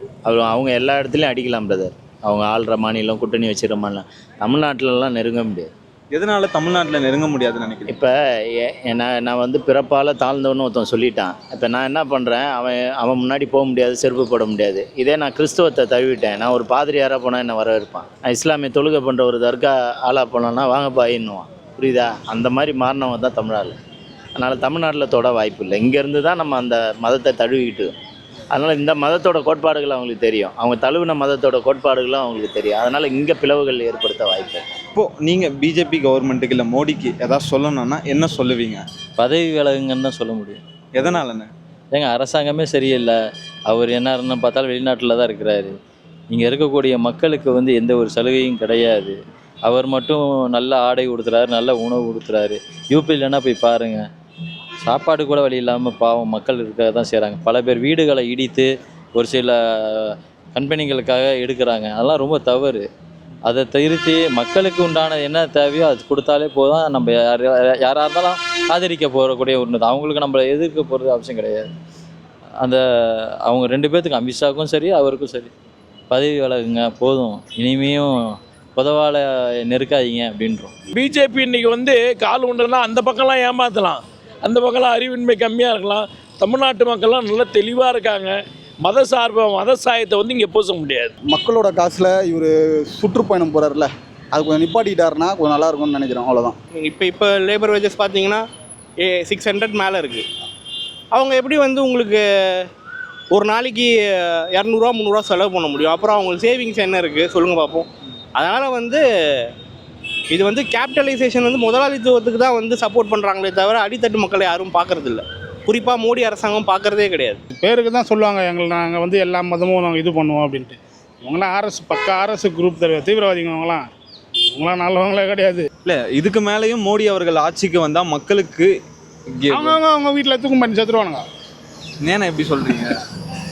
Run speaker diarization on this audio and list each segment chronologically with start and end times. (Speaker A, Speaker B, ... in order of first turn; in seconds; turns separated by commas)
Speaker A: 0.3-5.7, Speaker B: 6.1-7.9, Speaker A: 7.9-23.8, Speaker A: 24.4-27.9, Speaker A: 28.5-34.6, Speaker B: 35.0-38.8, Speaker C: 39.2-40.6, Speaker B: 41.0-41.5, Speaker C: 41.9-43.2, Speaker C: 43.7-45.8, Speaker C: 46.3-54.1, Speaker C: 54.8-62.9, Speaker C: 63.5-71.7, Speaker C: 72.6-75.5, Speaker C: 76.1-80.7, Speaker D: 80.9-91.1, Speaker E: 91.3-96.6, Speaker F: 96.7-98.4, Speaker F: 99.0-100.2, Speaker F: 101.1-102.7, Speaker F: 103.3-109.0, Speaker F: 110.3-117.4, Speaker G: 117.5-123.9, Speaker G: 124.6-125.7, Speaker B: 125.8-128.8, Speaker B: 129.3-129.8, Speaker G: 129.5-131.2, Speaker B: 132.0-132.9